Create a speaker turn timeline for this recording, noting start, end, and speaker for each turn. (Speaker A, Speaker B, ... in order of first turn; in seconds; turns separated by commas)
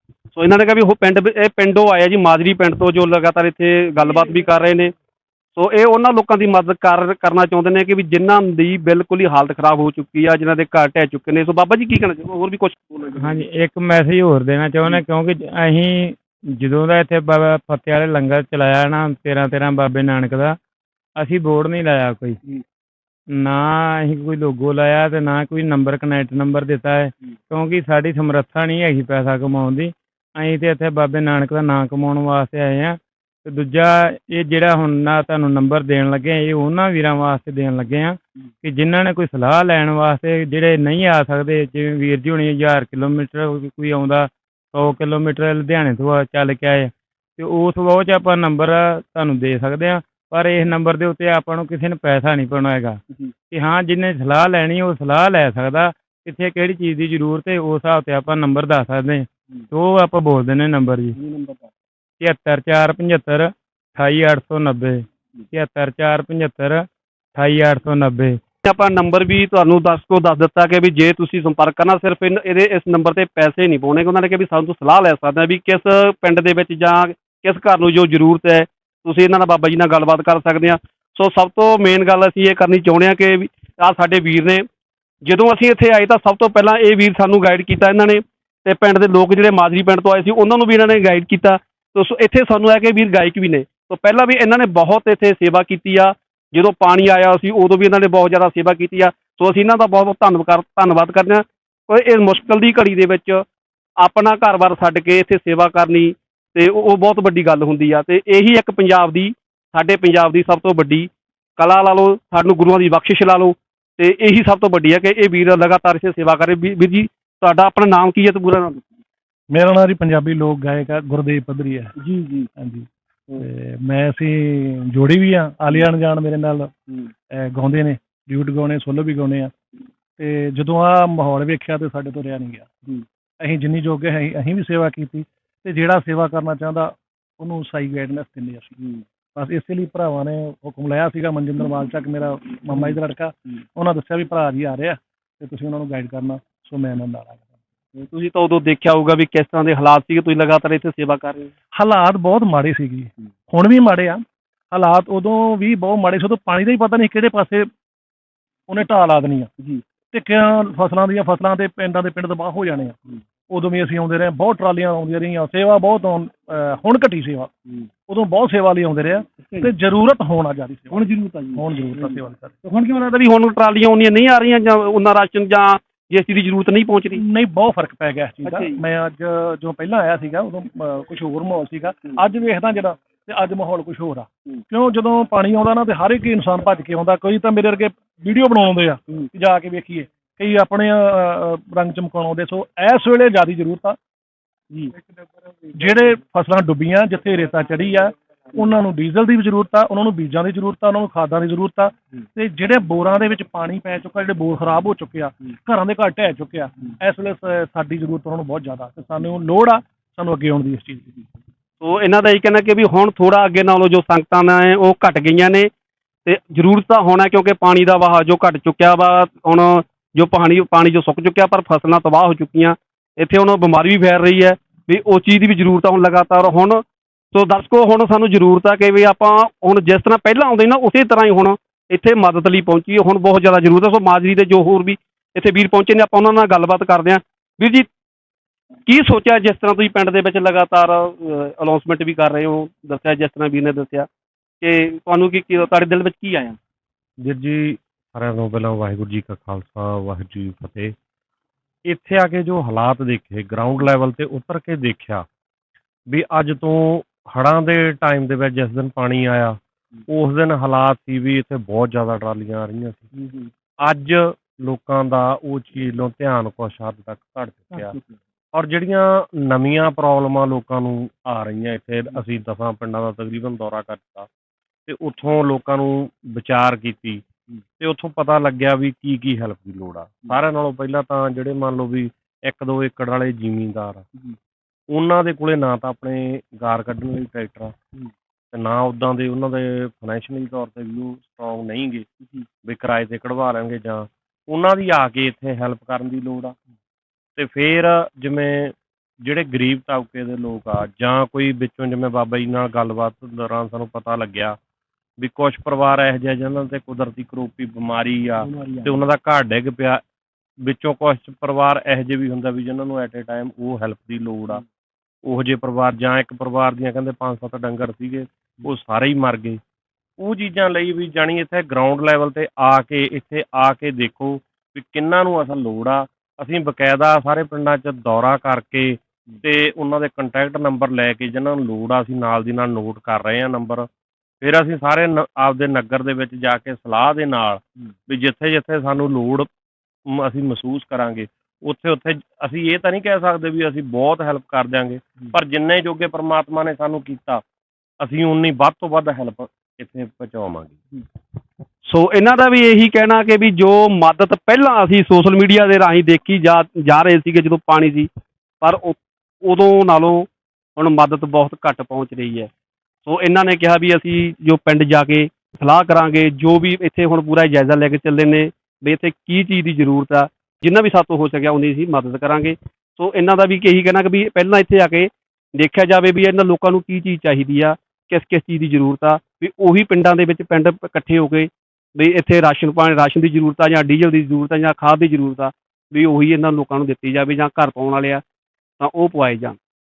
Speaker A: 0.3-4.9, Speaker A: 5.5-13.4, Speaker B: 13.2-20.6, Speaker B: 21.2-22.4, Speaker B: 23.3-53.0, Speaker B: 53.5-61.2, Speaker A: 61.1-61.7, Speaker B: 62.2-68.4, Speaker A: 68.6-84.7, Speaker A: 85.2-103.4, Speaker A: 104.0-119.0, Speaker C: 119.5-121.9, Speaker A: 122.0-122.5, Speaker C: 122.6-122.9, Speaker C: 123.4-126.7, Speaker C: 127.3-129.5, Speaker C: 130.2-132.7, Speaker C: 133.4-138.8, Speaker C: 139.4-147.4, Speaker A: 148.0-151.5, Speaker C: 151.7-157.7, Speaker C: 158.7-159.5, Speaker C: 160.1-163.0, Speaker C: 163.5-167.5, Speaker C: 168.1-171.0, Speaker A: 170.9-172.1, Speaker C: 171.6-172.6, Speaker A: 172.6-177.2, Speaker C: 177.2-194.0, Speaker A: 178.5-178.8, Speaker C: 195.7-211.2, Speaker A: 211.8-215.7, Speaker A: 216.2-237.9, Speaker A: 238.9-244.1, Speaker A: 244.6-246.6, Speaker D: 247.2-250.9, Speaker D: 251.9-255.3, Speaker D: 256.1-259.6, Speaker D: 260.1-263.1, Speaker D: 263.8-268.0, Speaker D: 268.5-274.3, Speaker D: 274.9-277.2, Speaker D: 277.8-284.1, Speaker D: 284.9-287.8, Speaker D: 288.5-292.1, Speaker D: 292.6-296.6, Speaker D: 297.4-304.6, Speaker D: 305.2-310.0, Speaker A: 308.5-308.8, Speaker D: 310.6-314.6, Speaker D: 315.2-319.6, Speaker D: 320.2-333.9, Speaker D: 334.4-339.5, Speaker D: 340.1-347.4, Speaker D: 348.0-350.8, Speaker A: 351.9-358.1, Speaker A: 358.6-362.5, Speaker A: 363.1-388.2, Speaker A: 388.8-389.6